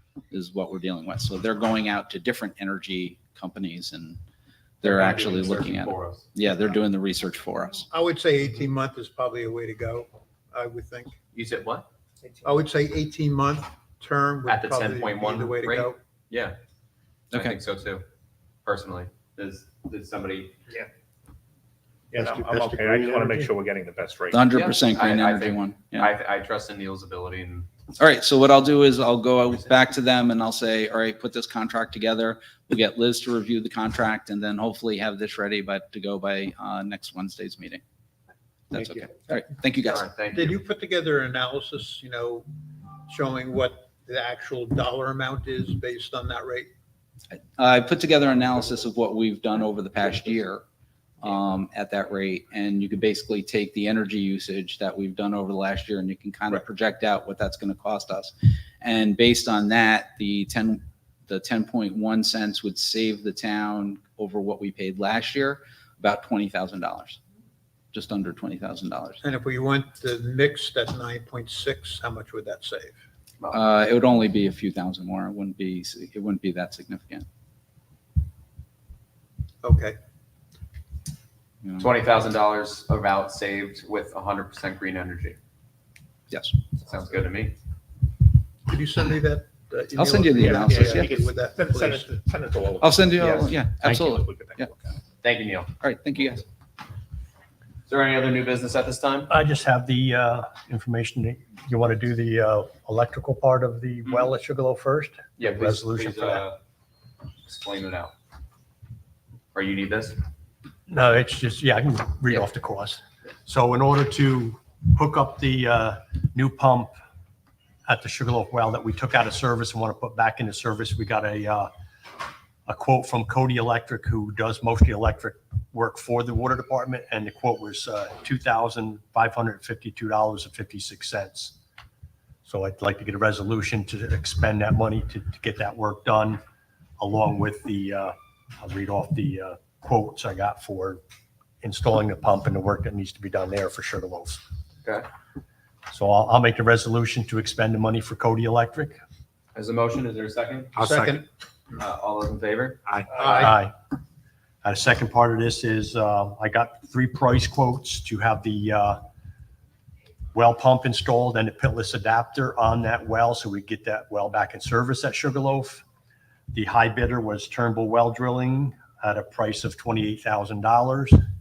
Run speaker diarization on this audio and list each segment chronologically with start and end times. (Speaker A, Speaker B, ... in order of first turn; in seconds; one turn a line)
Speaker A: 0.3-4.2
Speaker A: 4.8-7.8
Speaker B: 4.8-6.3
Speaker C: 7.9-11.2
Speaker B: 11.3-11.8
Speaker C: 12.4-16.0
Speaker B: 14.4-16.6
Speaker A: 17.3-17.6
Speaker B: 17.3-18.0
Speaker B: 18.6-20.6
Speaker D: 22.1-24.4
Speaker C: 22.2-23.5
Speaker A: 24.3-26.1
Speaker B: 24.5-27.7
Speaker A: 28.0-37.8
Speaker A: 38.7-40.0
Speaker B: 39.8-40.5
Speaker C: 40.3-42.5
Speaker C: 43.1-46.7
Speaker A: 47.6-50.6
Speaker A: 51.2-67.2
Speaker A: 67.9-69.2
Speaker C: 69.2-73.0
Speaker A: 73.5-77.2
Speaker C: 79.6-80.0
Speaker B: 81.8-85.4
Speaker A: 86.3-86.6
Speaker B: 86.8-87.5
Speaker C: 88.7-92.1
Speaker A: 89.9-91.1
Speaker D: 90.4-92.9
Speaker A: 92.8-94.7
Speaker B: 93.2-93.5
Speaker D: 93.9-94.6
Speaker B: 95.2-95.7
Speaker A: 95.8-96.4
Speaker B: 97.9-99.3
Speaker E: 99.3-106.4
Speaker B: 104.1-104.3
Speaker B: 105.4-106.6
Speaker B: 107.4-108.1
Speaker B: 109.5-110.2
Speaker E: 110.9-116.9
Speaker E: 117.8-121.7
Speaker E: 122.7-131.5
Speaker E: 132.4-136.4
Speaker E: 137.0-141.0
Speaker E: 141.6-144.4
Speaker E: 145.9-149.0
Speaker B: 149.5-150.8
Speaker C: 150.7-151.2
Speaker D: 150.8-151.0
Speaker B: 151.7-152.8
Speaker C: 153.1-153.5
Speaker E: 153.2-153.7
Speaker E: 154.6-159.0
Speaker E: 160.3-165.8
Speaker E: 166.5-171.2